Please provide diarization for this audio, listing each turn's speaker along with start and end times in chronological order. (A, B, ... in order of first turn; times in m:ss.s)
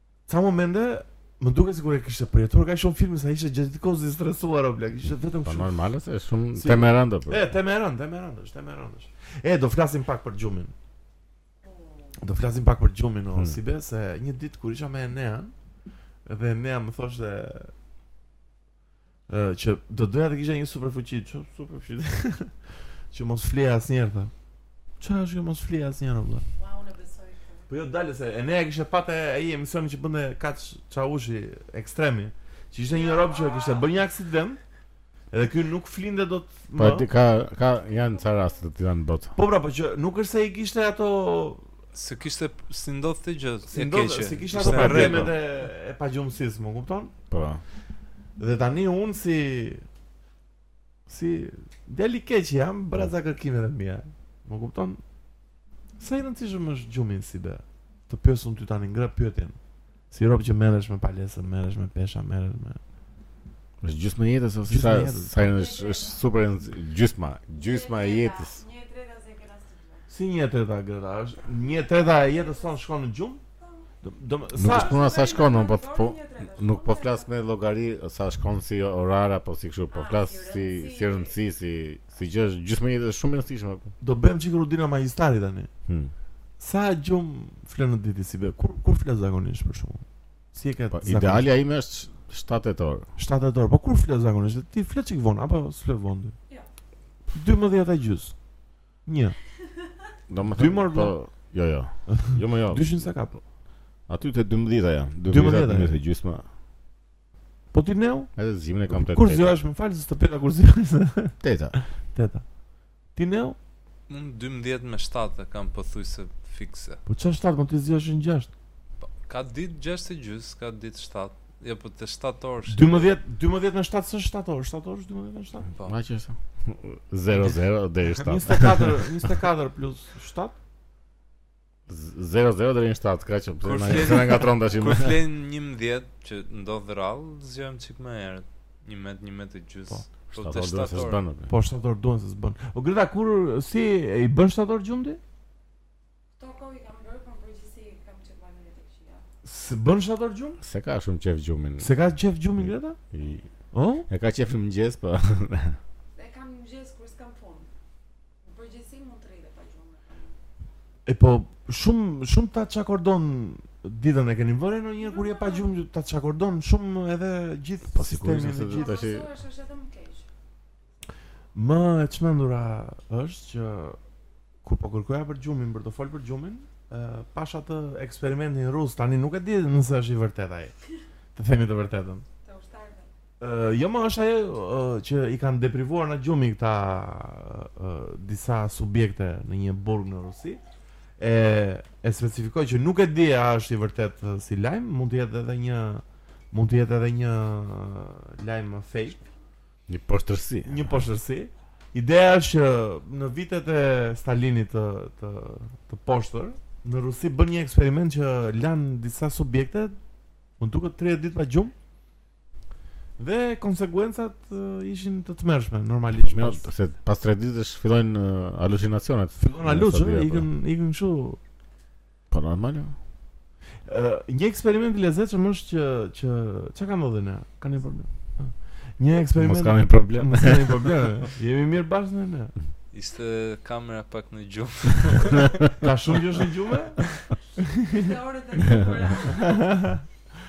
0:00.3-0:05.7 A
0:05.4-0:07.5 B
0:06.5-0:10.7 A
0:11.6-0:12.2 C
0:12.2-0:15.5 A
0:16.2-0:17.7 A
0:19.3-0:24.3 A
0:25.0-0:26.4 A
0:26.5-0:27.7 C
0:27.7-0:34.6 A
0:32.8-0:33.9 C
0:35.3-0:37.1 A
0:36.8-0:39.3 B
0:37.9-0:38.6 C
0:39.3-0:41.6 A
0:41.9-0:45.3 D
0:43.7-0:47.1 A
0:44.5-0:45.4 B
0:47.3-0:47.6 B
0:48.4-0:49.8 A
0:51.1-0:55.0 A
0:56.0-0:59.6 A
1:00.1-1:02.8 A
1:03.8-1:08.6 B
1:04.6-1:05.3 A
1:05.4-1:06.2 C
1:07.5-1:10.0 C
1:10.1-1:13.4 A
1:11.8-1:12.8 C
1:13.6-1:13.9 C
1:14.0-1:15.3 A
1:14.5-1:23.9 B
1:14.6-1:17.3 C
1:19.9-1:21.3 C
1:24.0-1:25.7 A
1:25.9-1:26.1 B
1:26.6-1:31.5 A
1:30.9-1:33.1 B
1:33.2-1:36.4 A
1:37.3-1:38.4 A
1:39.0-1:39.4 A
1:40.3-1:43.1 B
1:40.5-1:41.1 A
1:42.1-1:43.4 A
1:44.1-1:46.4 B
1:45.3-1:46.0 A
1:47.7-1:48.3 A
1:48.4-1:49.6 B
1:48.9-1:52.5 A
1:51.4-1:51.7 B
1:53.1-1:53.6 A
1:54.1-1:57.0 D
1:57.1-1:58.5 A
1:59.0-2:03.0 D
2:02.7-2:05.7 A
2:05.8-2:09.0 B
2:08.2-2:10.5 A
2:11.9-2:15.2 B
2:13.6-2:21.2 D
2:20.4-2:21.5 B
2:21.5-2:25.2 A
2:26.4-2:29.2 C
2:29.4-2:30.6 A
2:30.6-2:31.9 B
2:31.8-2:33.0 A
2:33.1-2:33.5 B
2:33.7-2:34.1 A
2:34.1-2:35.8 B
2:36.1-2:37.7 C
2:38.4-2:40.4 C
2:41.0-2:48.9 A
2:45.0-2:45.7 C
2:47.9-2:49.3 B
2:48.7-2:50.3 C
2:51.5-2:54.0 A
2:54.6-3:00.7 A
3:01.3-3:02.2 A
3:02.4-3:03.1 C
3:03.4-3:10.6 A
3:11.2-3:19.2 A
3:19.9-3:21.1 B
3:20.6-3:29.9 A
3:30.6-3:31.7 A
3:33.2-3:36.6 A
3:36.2-3:40.5 B
3:39.4-3:41.4 A
3:42.3-3:42.9 B
3:43.8-3:52.5 A
3:49.4-3:50.9 B
3:52.9-3:55.7 D
3:55.8-3:57.0 A
3:57.6-3:58.1 A
3:57.7-3:59.7 C
3:58.6-3:59.0 B
3:59.2-4:00.0 A